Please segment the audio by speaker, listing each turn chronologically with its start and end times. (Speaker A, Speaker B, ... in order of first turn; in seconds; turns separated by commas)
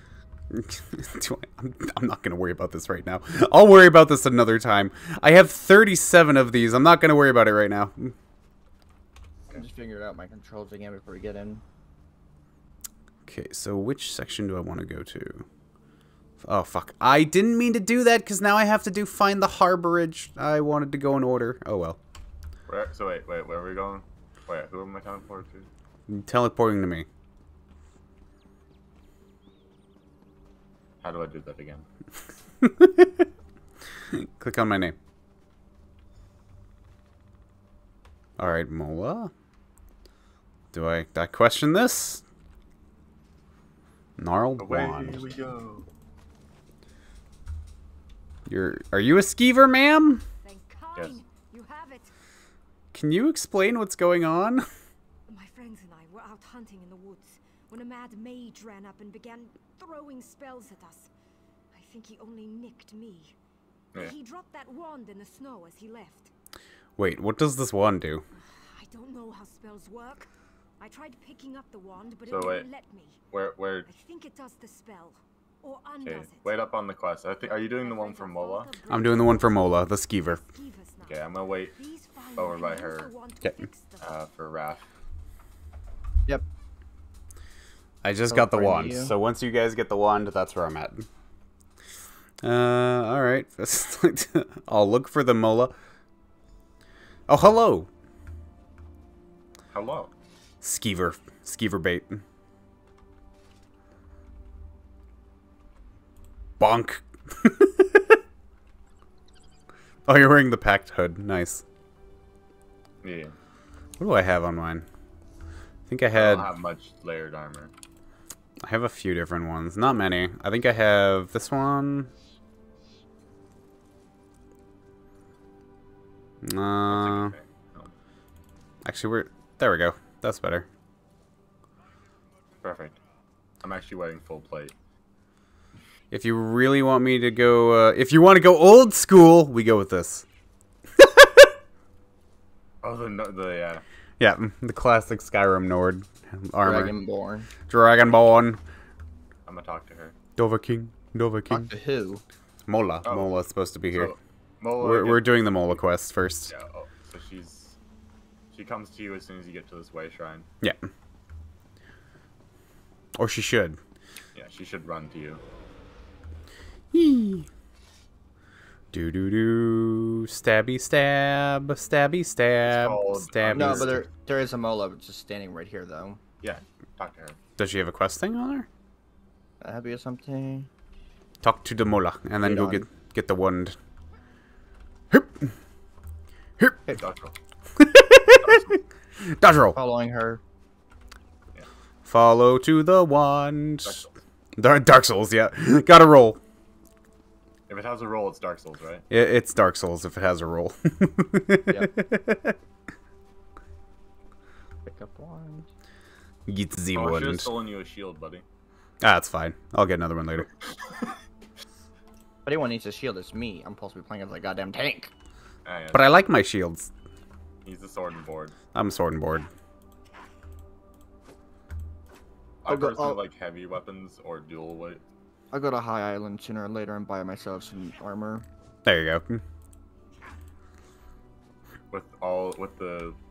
Speaker A: 0.5-8.1, Speaker B: 9.5-11.6, Speaker A: 13.2-15.4, Speaker A: 16.4-22.0, Speaker C: 22.7-25.7, Speaker A: 26.1-27.1, Speaker C: 31.0-31.9, Speaker A: 32.6-33.2, Speaker A: 34.1-34.9, Speaker A: 38.4-39.3, Speaker A: 40.7-42.2, Speaker A: 44.2-45.2, Speaker C: 44.6-45.9, Speaker A: 48.5-50.2, Speaker D: 50.4-52.1, Speaker A: 52.9-54.7, Speaker D: 55.3-61.1, Speaker D: 61.7-63.3, Speaker D: 64.0-66.3, Speaker A: 67.0-68.2, Speaker D: 68.3-70.3, Speaker D: 70.8-73.2, Speaker C: 72.3-72.7, Speaker C: 73.3-73.9, Speaker D: 73.8-76.5, Speaker C: 76.0-78.7, Speaker D: 77.8-79.6, Speaker A: 78.9-80.4, Speaker D: 80.3-81.2, Speaker C: 81.0-81.8, Speaker D: 81.8-84.1, Speaker C: 82.3-83.1, Speaker A: 83.4-83.7, Speaker C: 84.0-84.8, Speaker A: 88.0-91.1, Speaker B: 88.3-89.1, Speaker A: 92.4-95.7, Speaker A: 97.3-97.9, Speaker C: 99.7-100.1, Speaker A: 100.6-102.2, Speaker A: 106.6-108.2, Speaker A: 110.1-111.6, Speaker C: 113.0-113.3, Speaker A: 114.0-114.8, Speaker A: 115.9-116.5, Speaker C: 116.1-117.7, Speaker A: 118.6-122.1, Speaker A: 126.4-127.3, Speaker C: 126.9-127.9, Speaker A: 128.8-130.7, Speaker C: 132.6-133.0, Speaker C: 133.6-134.7, Speaker A: 136.1-140.2, Speaker A: 141.0-141.5, Speaker C: 142.8-143.8, Speaker A: 144.2-146.9, Speaker B: 146.6-147.5, Speaker A: 147.7-148.6, Speaker C: 149.4-150.2, Speaker A: 150.4-151.7, Speaker B: 151.5-152.2, Speaker A: 152.7-154.1, Speaker C: 153.0-153.3, Speaker C: 153.9-155.8, Speaker A: 154.8-156.5, Speaker C: 156.5-157.8, Speaker C: 158.5-160.5, Speaker A: 163.2-163.8, Speaker C: 164.3-165.4, Speaker A: 166.9-167.5, Speaker A: 168.9-174.0, Speaker C: 172.6-174.1, Speaker B: 173.5-176.2, Speaker C: 176.4-177.4, Speaker A: 177.6-178.7, Speaker B: 179.6-180.7, Speaker A: 181.4-183.8, Speaker B: 182.4-182.8, Speaker A: 185.1-185.5, Speaker C: 187.0-187.3, Speaker A: 187.8-189.8, Speaker C: 188.4-188.8, Speaker B: 189.7-190.4, Speaker A: 192.0-194.0, Speaker C: 193.8-194.1, Speaker A: 194.6-196.4, Speaker C: 197.7-199.0, Speaker A: 199.1-202.6, Speaker B: 204.8-205.7, Speaker A: 206.5-207.5, Speaker C: 206.9-208.4, Speaker A: 209.0-210.5, Speaker C: 210.7-211.0, Speaker B: 212.4-215.1, Speaker C: 215.6-216.2, Speaker A: 215.9-216.9, Speaker C: 217.6-218.5, Speaker A: 218.7-219.5, Speaker C: 222.6-225.0, Speaker B: 222.7-223.2, Speaker B: 225.5-228.4, Speaker A: 228.8-229.4, Speaker C: 231.9-233.2